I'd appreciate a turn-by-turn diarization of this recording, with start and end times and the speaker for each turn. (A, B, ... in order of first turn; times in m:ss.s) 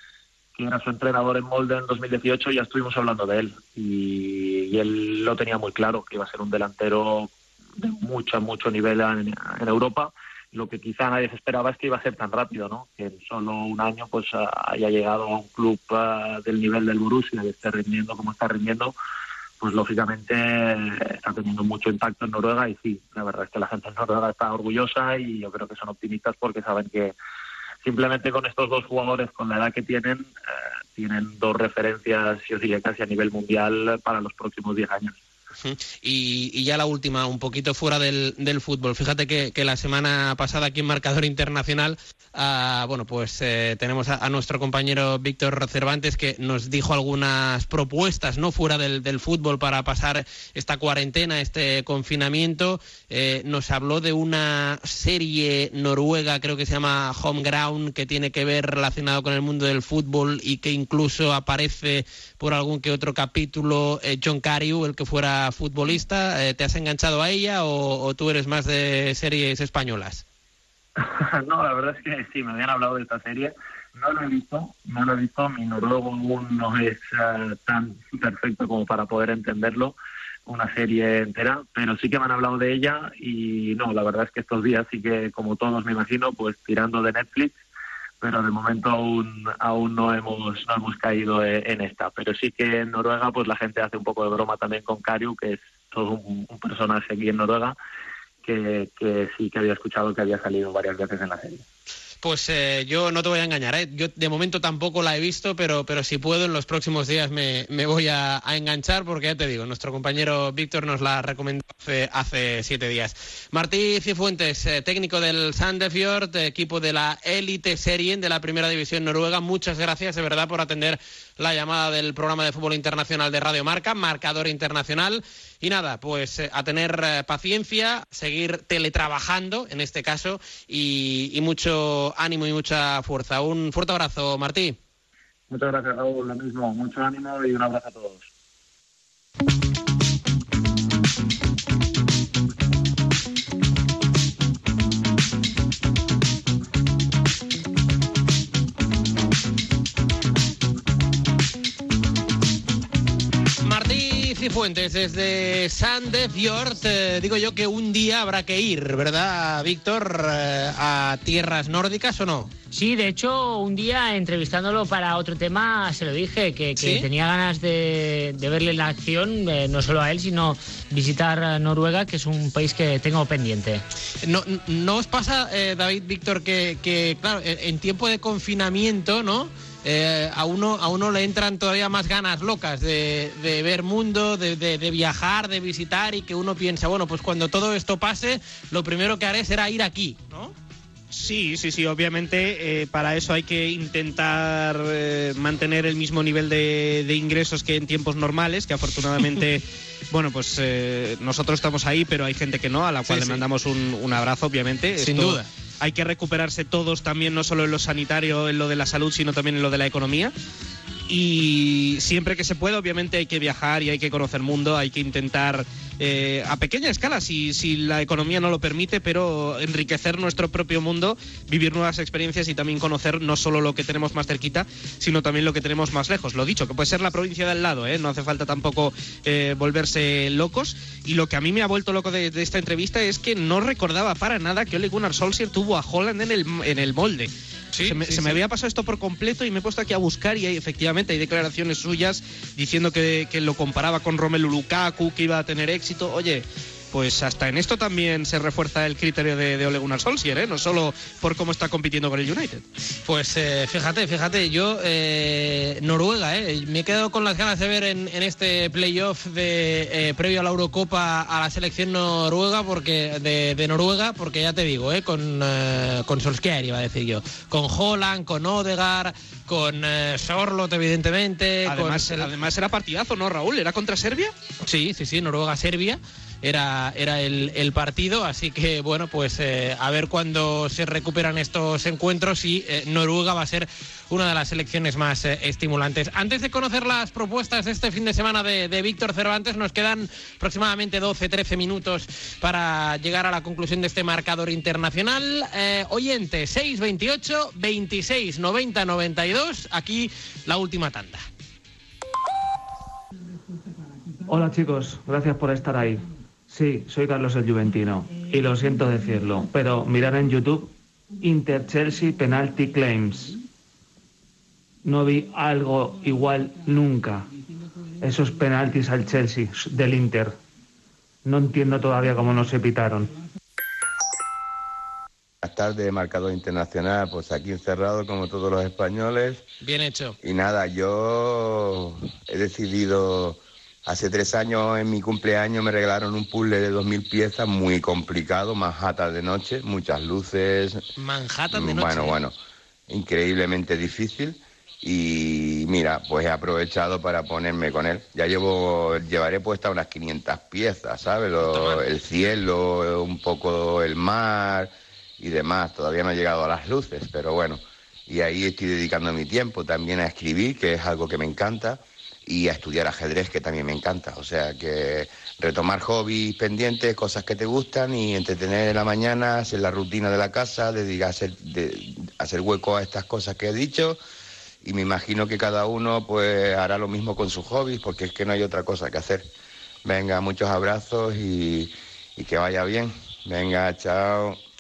0:00.6-0:19.0 A
0:19.6-0:27.2 A
0:27.8-0:30.3 A
0:30.9-0:35.2 A
0:35.6-1:10.2 B
1:11.0-1:20.0 A
1:20.5-1:27.6 A
1:28.2-1:37.8 A
1:38.4-1:41.6 A
1:42.2-2:14.8 B
2:15.5-2:18.3 A
2:33.6-2:42.5 B
2:42.7-2:53.8 C
2:46.8-2:47.1 B
2:54.2-3:10.5 B
3:11.1-3:30.3 D
3:23.1-3:23.4 B
3:25.0-3:25.4 B
3:31.1-4:12.6 D
4:13.0-4:32.3 B
4:31.7-4:34.3 D
4:34.6-5:01.2 B
5:04.3-5:13.4 E
5:14.8-5:17.3 E
5:18.0-5:20.4 E
5:21.2-5:23.1 E
5:25.4-5:29.4 F
5:29.6-5:30.2 B
5:30.2-5:40.9 F
5:41.0-5:42.2 B
5:41.5-5:42.4 F
5:42.9-6:14.0 F
5:51.5-5:51.8 B
6:14.6-6:19.3 F
6:19.8-6:24.4 F